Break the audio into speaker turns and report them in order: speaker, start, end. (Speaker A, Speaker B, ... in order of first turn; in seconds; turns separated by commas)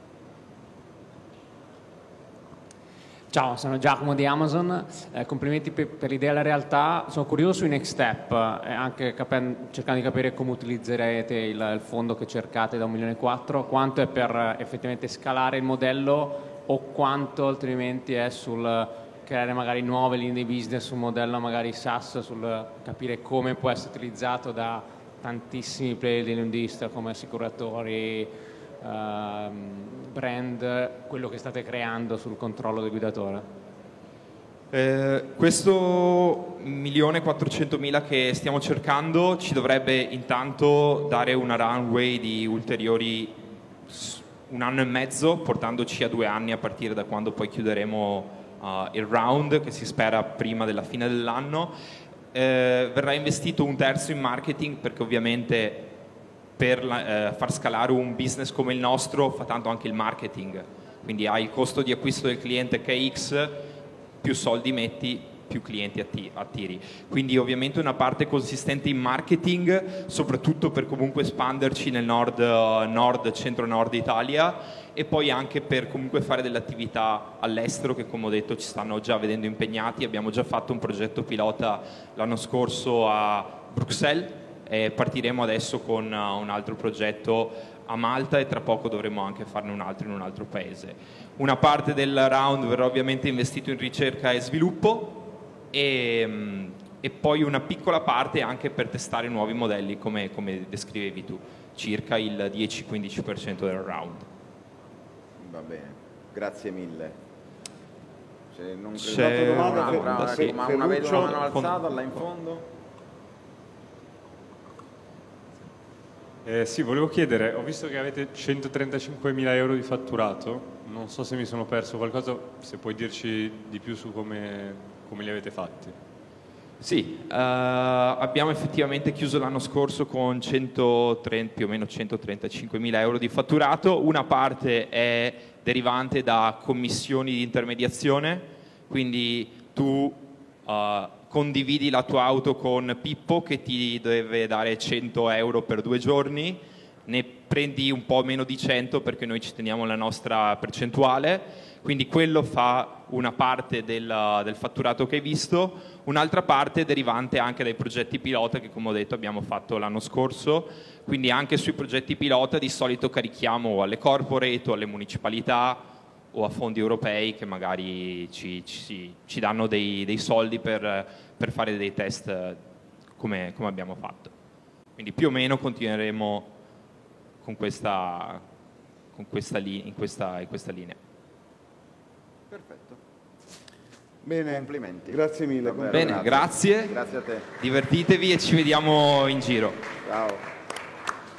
Speaker A: 3.3-33.4, Speaker B: 34.7-51.7, Speaker B: 52.3-55.9, Speaker B: 56.6-104.2, Speaker C: 105.4-107.2, Speaker C: 108.5-112.7, Speaker B: 109.0-111.8, Speaker D: 109.1-111.4, Speaker E: 116.4-125.9, Speaker B: 126.8-172.6, Speaker B: 173.2-174.3, Speaker B: 175.0-176.5, Speaker B: 177.4-178.4, Speaker B: 179.1-181.0, Speaker C: 182.5-183.0, Speaker D: 184.2-186.3, Speaker C: 184.5-187.5, Speaker B: 185.9-187.0, Speaker B: 187.6-189.8, Speaker C: 190.0-190.4